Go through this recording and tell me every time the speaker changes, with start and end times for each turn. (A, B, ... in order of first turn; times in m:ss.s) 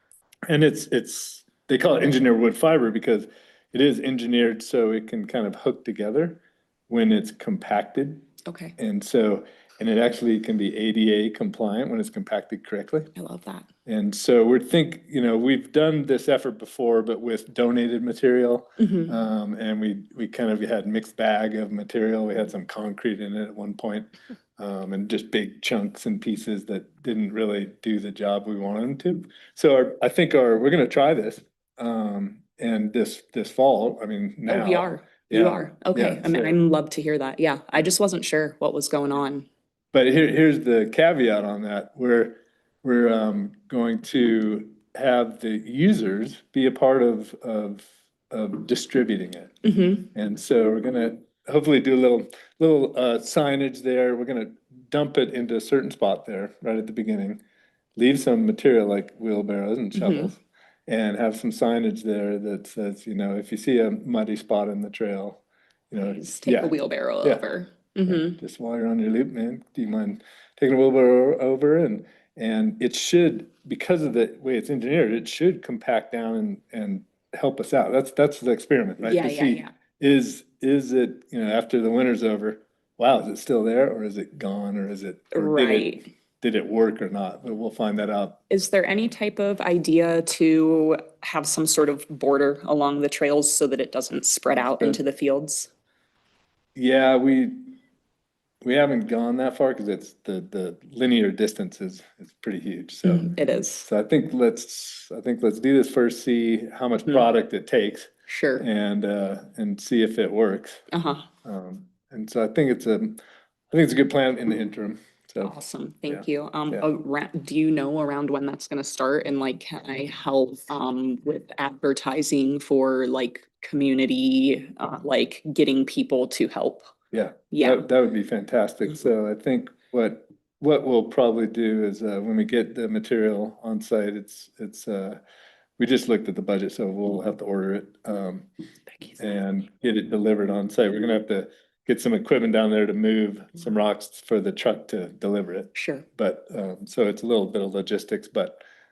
0:00.5-0:08.2 A
0:08.4-0:08.8 B
0:08.8-0:13.1 A
0:13.2-0:13.7 B
0:13.9-0:36.6 A
0:18.8-0:19.1 B
0:34.5-0:39.5 B
0:39.9-0:57.4 A
0:49.6-0:50.0 B
0:58.0-1:07.4 A
0:59.9-1:00.3 B
1:06.1-1:08.4 B
1:08.0-1:28.4 A
1:19.0-1:19.7 B
1:25.3-1:26.0 B
1:28.5-1:35.7 B
1:36.8-1:37.7 A
1:38.6-1:50.8 A
1:43.0-1:43.9 B
1:48.3-1:48.7 B
1:50.9-1:51.2 B
1:51.4-1:53.2 A
1:53.7-1:55.5 A
1:55.4-2:06.9 B
1:56.1-1:56.9 A
2:07.1-2:15.2 A
2:07.5-2:07.8 B
2:15.8-2:18.5 A
2:19.2-2:28.6 A
2:25.8-2:26.0 B